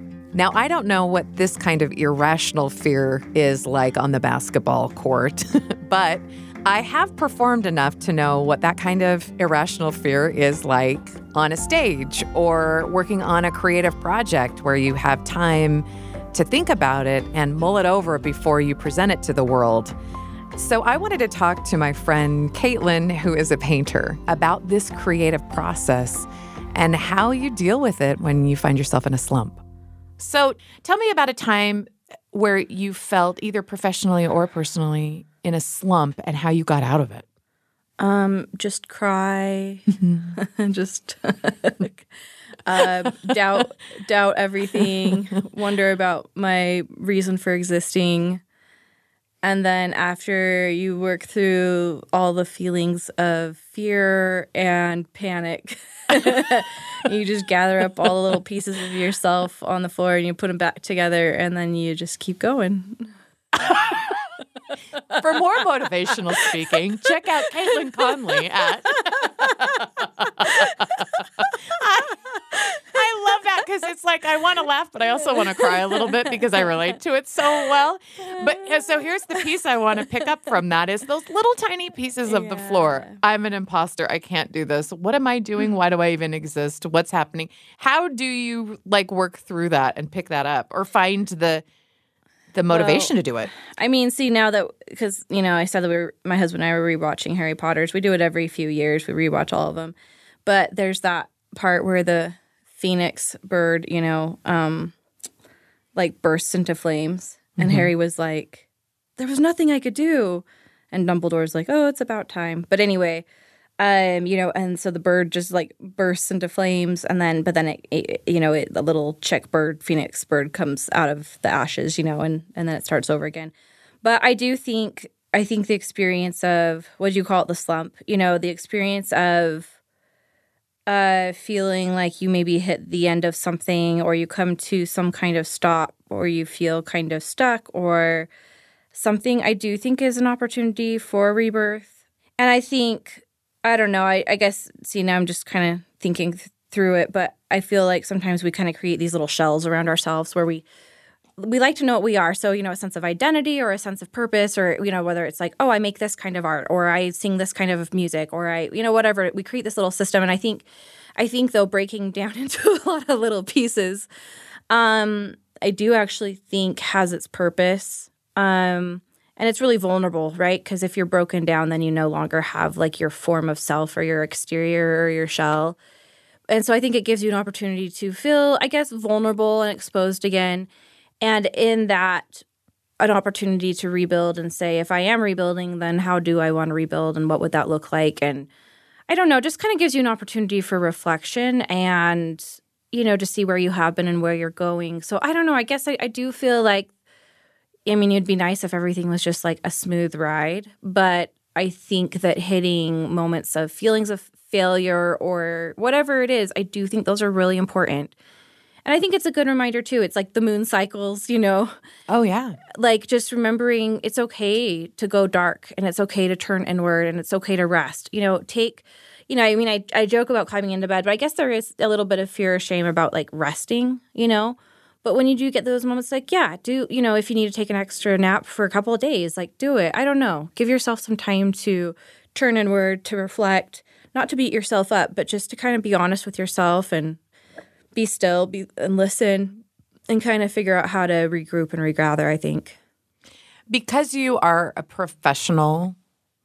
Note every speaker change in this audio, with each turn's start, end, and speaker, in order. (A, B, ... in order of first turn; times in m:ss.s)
0:00.3-0:19.9 A
0:20.6-0:29.6 A
0:30.2-0:37.2 A
0:38.0-0:42.0 B
0:40.0-0:40.3 A
0:42.6-0:48.4 B
0:49.4-1:03.1 B
1:05.2-1:10.6 A
1:08.9-1:09.8 B
1:10.4-1:10.8 B
1:11.4-1:12.1 A
1:12.9-1:31.6 A
1:15.6-1:16.1 B
1:18.2-1:19.0 B
1:22.3-1:23.2 B
1:32.5-1:33.5 A
1:32.7-1:44.9 B
1:46.0-1:48.6 B
1:47.6-1:47.9 A
1:49.2-1:53.2 B
1:53.8-2:09.7 B
2:10.9-2:18.3 B
2:18.9-2:30.6 B
2:31.4-2:40.6 B
2:41.2-2:44.1 B
2:44.7-2:55.8 B
2:56.5-3:00.7 B
3:01.2-3:02.4 B
3:03.0-3:08.5 B
3:09.1-3:16.9 B
3:17.8-3:28.1 B
3:28.8-3:31.7 B
3:32.1-3:32.6 A
3:32.8-3:57.2 B
3:57.9-4:02.8 B
4:03.7-4:05.9 A